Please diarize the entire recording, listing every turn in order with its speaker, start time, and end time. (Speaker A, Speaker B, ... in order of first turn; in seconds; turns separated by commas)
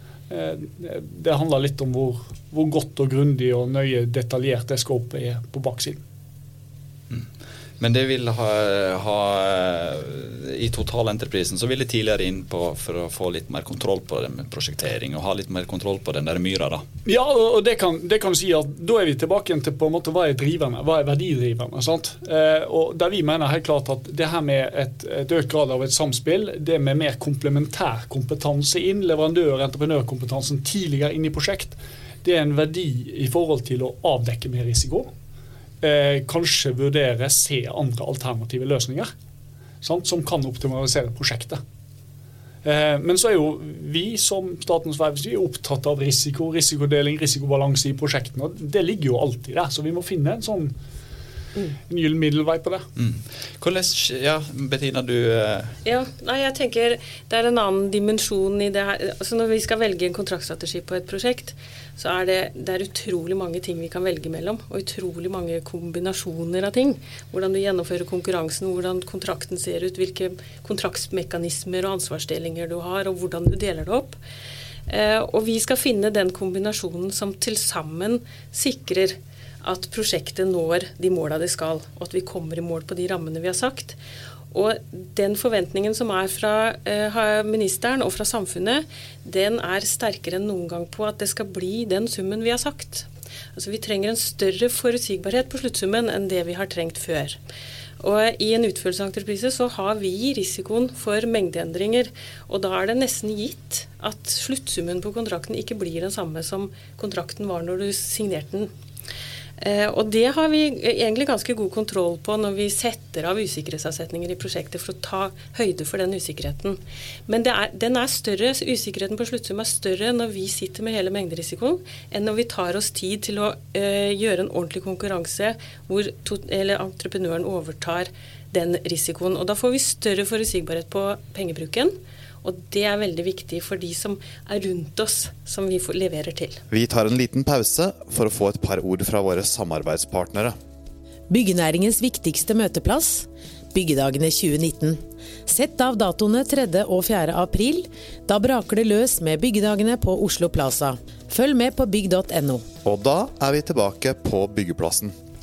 Speaker A: 0.3-6.0, Speaker B: 7.8-16.8, Speaker A: 17.1-35.1, Speaker A: 35.8-39.1, Speaker A: 39.8-41.6, Speaker A: 42.6-50.7, Speaker A: 51.9-52.9, Speaker B: 53.0-55.7, Speaker C: 55.8-74.2, Speaker C: 74.9-84.0, Speaker C: 84.5-97.4, Speaker C: 98.0-108.7, Speaker C: 109.6-136.6, Speaker D: 136.7-140.5, Speaker E: 141.3-152.6, Speaker D: 152.8-155.1